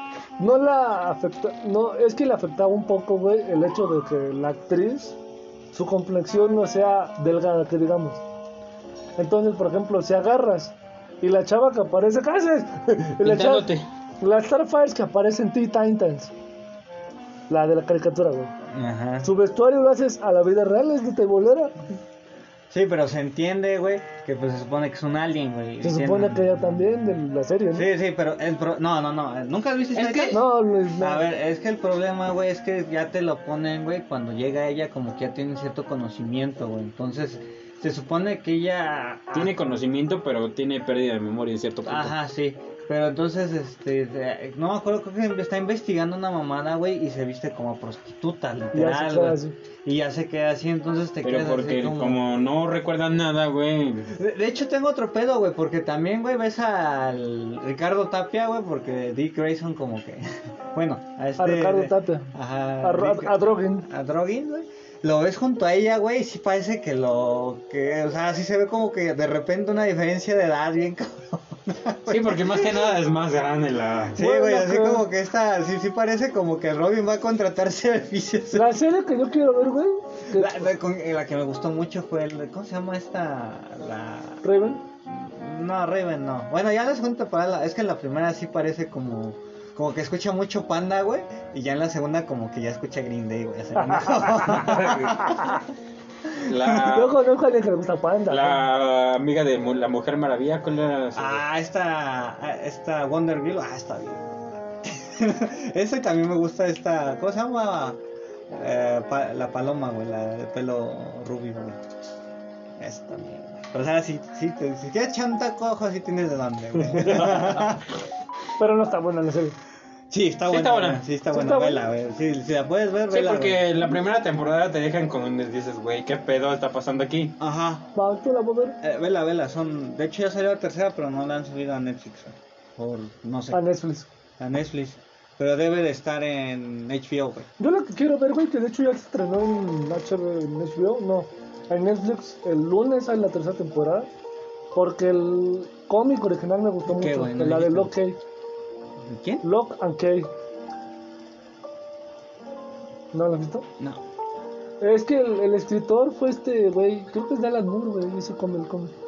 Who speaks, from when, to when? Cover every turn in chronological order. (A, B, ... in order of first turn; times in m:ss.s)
0:00.4-0:05.2 A
0:05.7-0:08.2 A
0:09.2-0:16.3 A
0:13.2-0:13.8 B
0:17.5-0:18.5 A
0:18.7-0:19.3 C
0:19.2-0:21.8 A
0:22.7-0:26.7 C
0:25.8-0:27.9 A
0:27.7-0:39.6 C
0:29.9-0:30.4 B
0:30.3-0:31.3 A
0:39.3-0:42.1 B
0:41.8-0:52.2 C
0:48.7-0:49.5 A
0:51.2-0:54.1 B
0:54.1-1:12.9 C
1:01.4-1:03.9 A
1:12.1-1:14.2 B
1:14.1-1:18.7 C
1:14.2-1:15.0 A
1:18.5-1:20.7 A
1:20.3-1:24.4 C
1:24.4-1:24.8 A
1:25.0-1:35.6 C
1:33.8-1:35.6 A
1:36.4-1:36.9 C
1:36.4-1:37.2 B
1:36.7-1:38.6 A
1:38.3-1:41.4 B
1:41.1-1:51.8 C
1:52.8-1:57.9 C
1:56.9-1:57.6 B
1:58.6-1:59.5 A
2:00.1-2:03.7 C
2:00.5-2:01.0 B
2:01.3-2:01.8 A
2:03.1-2:07.3 B
2:07.4-2:07.9 C
2:07.9-2:08.8 A
2:08.8-2:13.6 C
2:13.5-2:14.1 A
2:14.4-2:17.5 C
2:17.6-2:24.1 A
2:24.7-2:28.2 A
2:26.9-2:27.9 C
2:29.0-2:29.4 C
2:29.4-2:30.3 A
2:33.1-2:33.6 A
2:34.8-2:38.9 A